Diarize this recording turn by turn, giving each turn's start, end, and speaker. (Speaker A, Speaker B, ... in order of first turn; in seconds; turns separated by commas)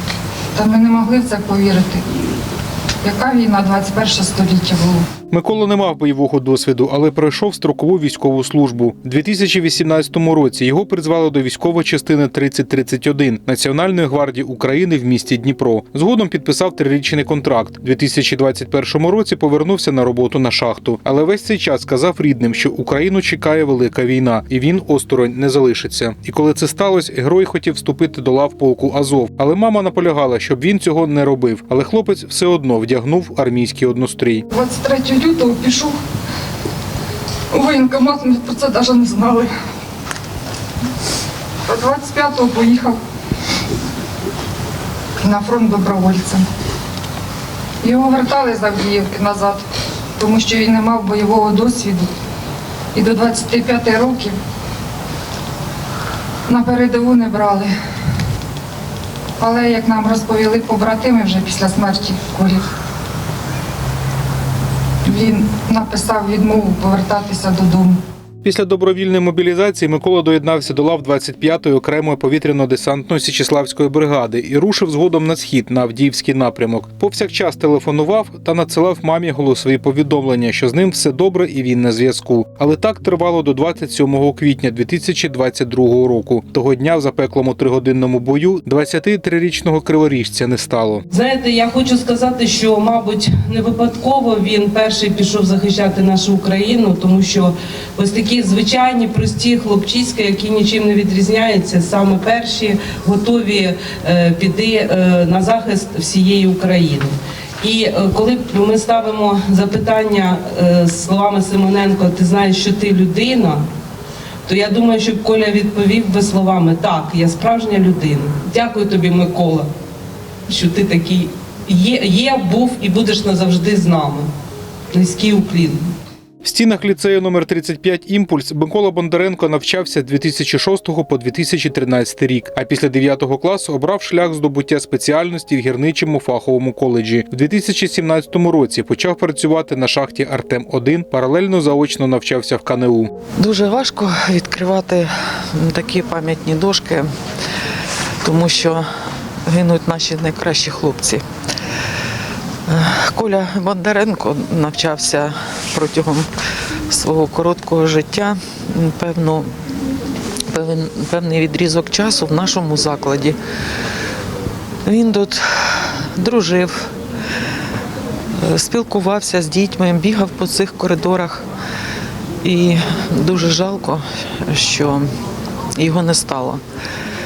Speaker A: 0.5-2.0, Speaker A: 3.0-5.0, Speaker B: 5.3-34.4, Speaker A: 34.5-36.0, Speaker A: 37.5-39.5, Speaker A: 41.7-43.0, Speaker A: 45.2-46.5, Speaker A: 47.8-49.6, Speaker A: 50.2-52.1, Speaker A: 52.9-54.4, Speaker A: 56.5-57.7, Speaker A: 59.4-62.6, Speaker A: 65.0-68.0, Speaker B: 68.4-91.0, Speaker C: 91.1-113.7, Speaker C: 114.5-119.7, Speaker C: 120.5-124.3, Speaker C: 124.9-125.8, Speaker B: 126.4-143.1, Speaker D: 143.4-147.1, Speaker D: 148.2-148.9, Speaker D: 149.5-151.2, Speaker D: 152.7-156.3, Speaker D: 156.9-159.5, Speaker D: 160.5-163.4, Speaker D: 164.8-166.9, Speaker D: 168.4-171.5, Speaker D: 172.4-175.1, Speaker D: 175.8-176.6